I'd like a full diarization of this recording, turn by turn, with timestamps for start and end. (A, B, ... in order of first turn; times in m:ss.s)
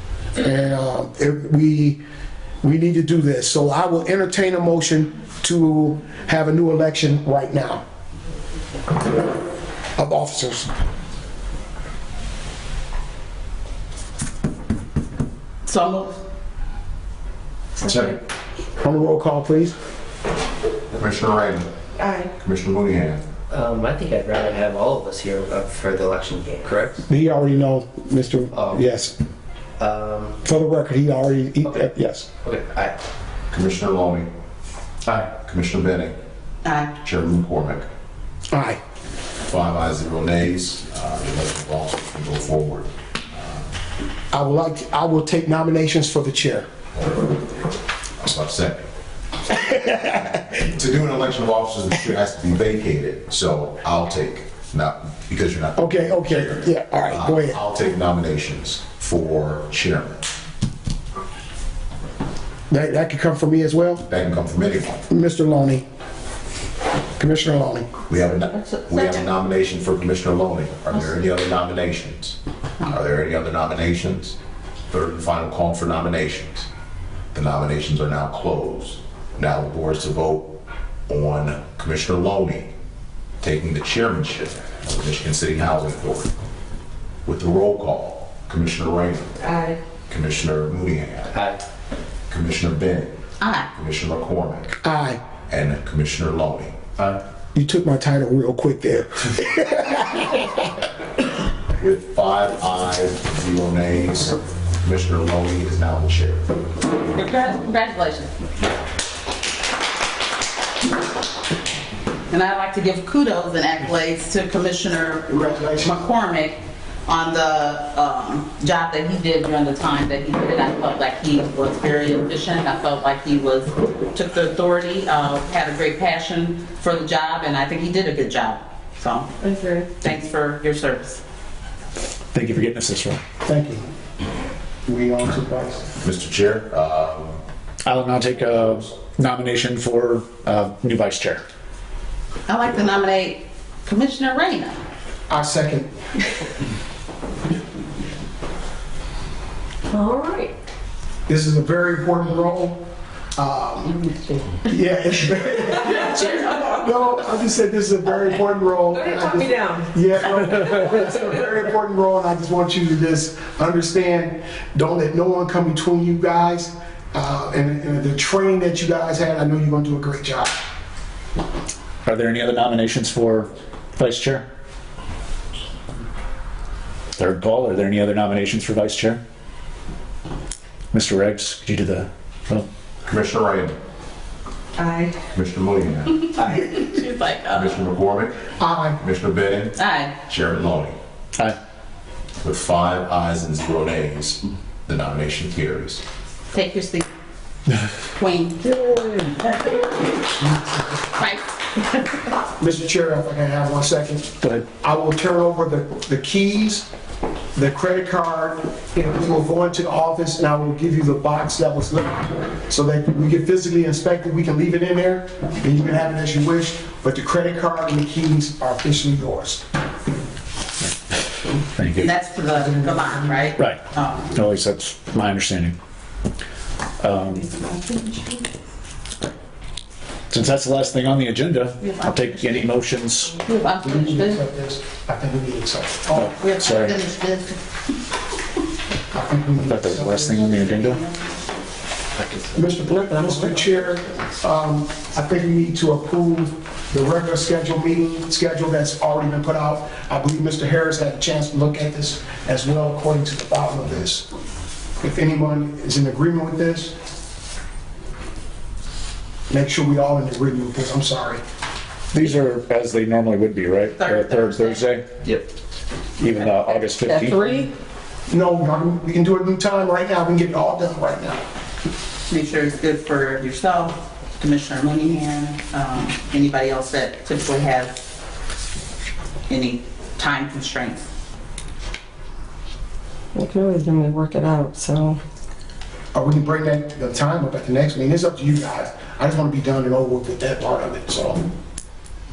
0:00.4-0:02.0 A
0:02.6-0:07.8 A
0:10.0-0:10.7 A
0:15.6-0:16.2 B
0:17.8-0:18.2 C
0:18.8-0:19.7 A
0:20.9-0:21.7 C
0:22.0-0:22.3 D
0:22.2-0:23.3 C
0:23.5-0:27.0 E
0:27.1-0:29.1 A
0:28.5-0:28.8 E
0:29.8-0:30.4 E
0:30.4-0:32.3 A
0:32.4-0:33.0 E
0:33.5-0:34.3 C
0:35.2-0:36.2 C
0:36.6-0:36.9 B
0:37.0-0:37.9 C
0:38.5-0:38.8 A
0:39.4-0:43.6 C
0:44.3-0:46.7 A
0:48.2-0:48.8 C
0:49.5-0:50.3 A
0:50.5-1:00.3 C
0:55.8-0:57.6 A
1:02.7-1:04.0 A
1:04.1-1:05.0 C
1:05.1-1:05.8 A
1:07.2-1:07.9 A
1:08.1-1:14.4 C
1:14.9-1:16.7 C
1:17.3-1:20.6 C
1:21.1-1:22.7 C
1:23.4-1:26.3 C
1:27.2-1:29.5 C
1:29.5-1:29.8 D
1:30.1-1:31.4 C
1:31.3-1:31.6 E
1:32.3-1:33.1 C
1:33.4-1:33.7 B
1:33.7-1:34.7 C
1:34.8-1:35.2 A
1:35.5-1:36.8 C
1:37.5-1:40.5 A
1:41.8-1:46.4 C
1:47.1-1:48.4 B
1:52.3-2:09.3 B
1:55.3-1:56.0 A
2:09.4-2:09.9 D
2:09.9-2:11.2 B
2:12.3-2:13.2 F
2:13.4-2:13.8 A
2:14.8-2:15.9 A
2:16.0-2:17.4 C
2:17.8-2:21.4 F
2:22.5-2:24.8 B
2:25.3-2:25.9 A
2:29.9-2:30.5 D
2:31.3-2:32.8 A
2:33.4-2:34.1 A
2:34.6-2:50.6 A
2:39.0-2:39.8 D
2:52.0-2:54.4 F
2:57.2-2:59.2 F
3:00.9-3:02.6 F
3:03.0-3:03.7 C
3:04.8-3:05.1 D
3:05.3-3:06.5 C
3:06.3-3:07.8 B
3:07.5-3:11.0 C
3:08.6-3:09.0 A
3:09.7-3:10.2 B
3:12.4-3:16.0 C
3:16.5-3:17.1 B
3:18.1-3:18.8 B
3:18.9-3:19.2 F
3:20.5-3:20.9 A
3:21.1-3:22.0 B
3:22.6-3:26.9 A
3:27.5-3:39.6 A
3:41.8-3:42.1 F
3:42.0-3:44.4 B
3:42.5-3:43.5 A
3:43.6-3:43.8 F
3:44.3-3:45.7 F
3:47.0-3:47.5 F
3:50.3-3:53.4 F
3:51.8-3:52.7 B
3:53.4-3:54.4 B
3:53.8-3:56.3 A
3:56.2-3:57.0 F
3:56.2-3:57.6 B
3:59.1-4:00.5 A
3:59.6-4:01.0 F
4:00.5-4:01.3 B
4:02.2-4:02.5 E
4:02.5-4:14.3 A
4:02.9-4:03.8 D
4:03.8-4:04.3 E
4:15.0-4:16.9 A
4:19.5-4:21.4 A
4:22.1-4:25.0 F
4:23.9-4:24.9 B
4:26.2-4:27.7 F
4:26.9-4:27.7 D
4:28.3-4:31.4 A
4:32.3-4:38.0 B
4:39.5-4:41.1 B
4:43.3-4:45.2 D
4:46.1-4:51.4 A